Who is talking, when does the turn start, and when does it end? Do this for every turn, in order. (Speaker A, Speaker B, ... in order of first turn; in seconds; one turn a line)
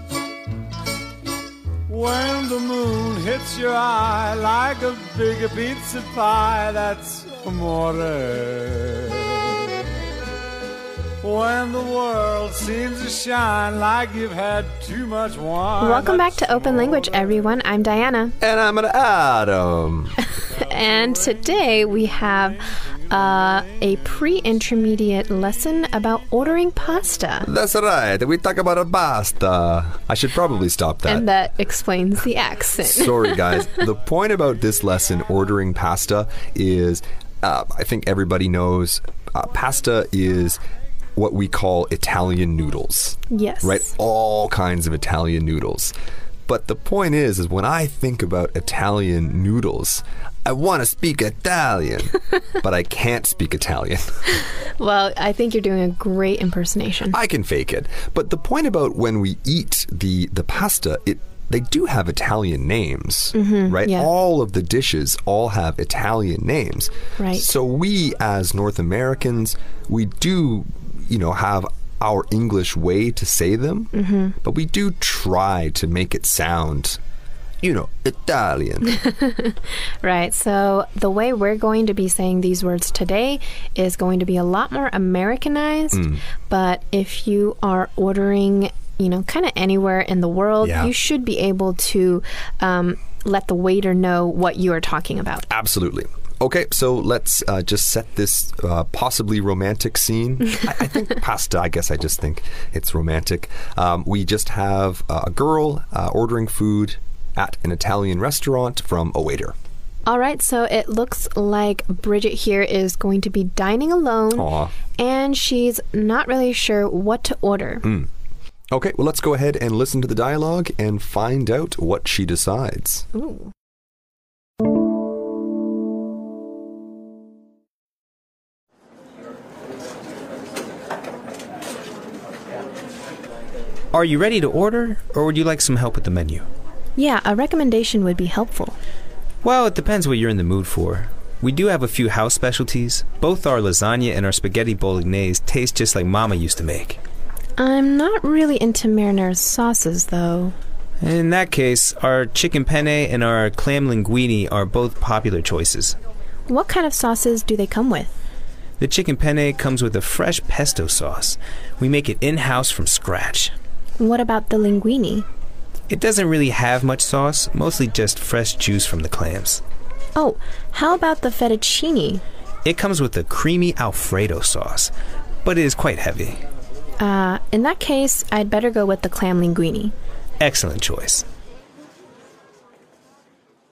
Speaker A: 1.9-9.6
Speaker A: 11.2-17.0
Speaker B: 15.8-18.3
Speaker C: 18.4-20.2
Speaker B: 20.3-27.5
Speaker C: 27.4-31.3
Speaker B: 31.1-33.7
Speaker C: 32.8-40.6
Speaker C: 41.1-45.9
Speaker B: 43.3-43.9
Speaker C: 46.5-54.4
Speaker B: 54.8-57.1
Speaker C: 57.1-77.0
Speaker B: 63.3-64.1
Speaker B: 67.2-67.5
Speaker B: 73.9-74.4
Speaker C: 77.6-79.0
Speaker B: 78.8-95.5
Speaker C: 85.9-86.2
Speaker C: 90.6-90.9
Speaker C: 95.5-109.5
Speaker B: 110.0-117.9
Speaker C: 114.3-114.7
Speaker C: 117.8-118.1
Speaker C: 118.7-123.0
Speaker B: 123.1-123.5
Speaker D: 133.9-136.4
Speaker B: 136.9-138.8
Speaker D: 139.4-147.0
Speaker B: 147.6-150.5
Speaker D: 151.0-155.9
Speaker B: 156.5-158.1
Speaker D: 158.8-163.5
Speaker B: 164.0-165.2
Speaker D: 165.9-169.6
Speaker B: 170.2-172.2
Speaker D: 172.6-174.9
Speaker D: 175.4-176.4
Speaker B: 177.0-179.9
Speaker D: 180.4-181.2